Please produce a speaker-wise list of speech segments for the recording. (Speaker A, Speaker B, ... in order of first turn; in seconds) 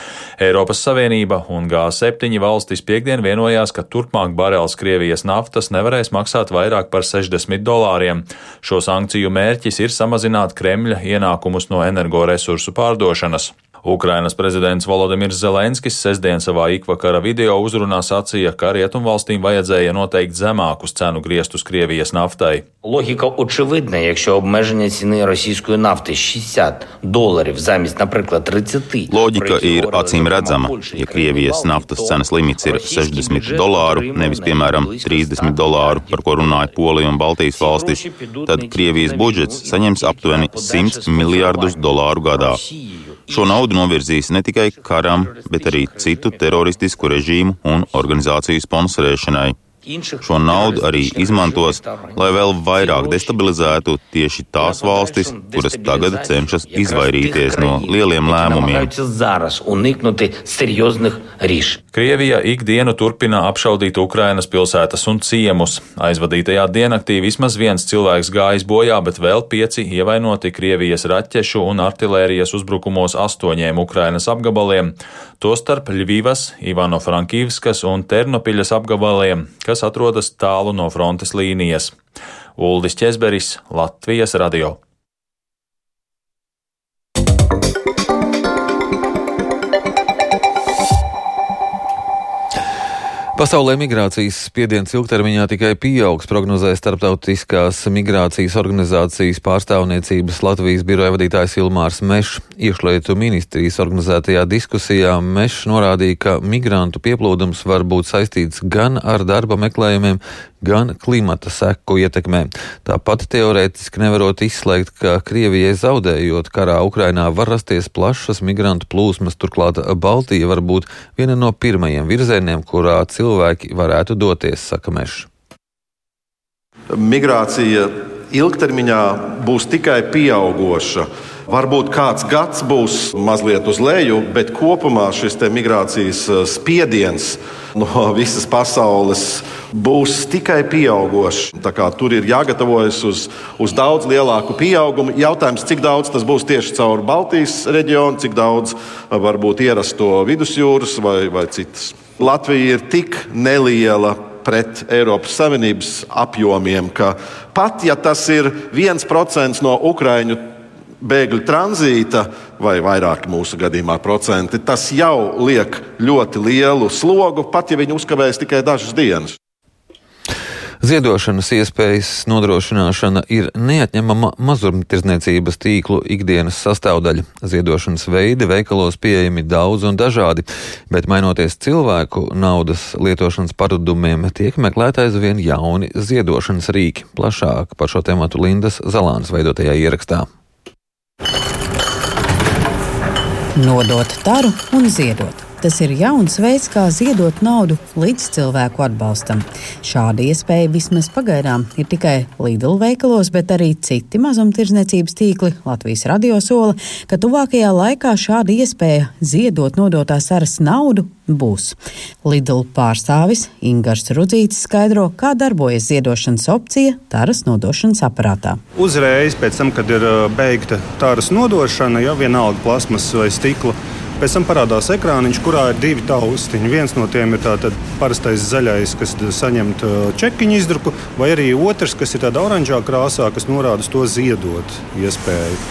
Speaker A: 0.4-22.6, 61.9-82.0, 82.6-84.8
Speaker B: 22.8-48.5, 49.8-61.8
Speaker C: 29.1-42.6, 43.3-49.6, 50.2-58.9
Speaker D: 93.4-125.3, 170.8-190.3
Speaker E: 127.0-160.4, 161.0-169.4
Speaker F: 193.6-218.6
Speaker G: 218.8-235.6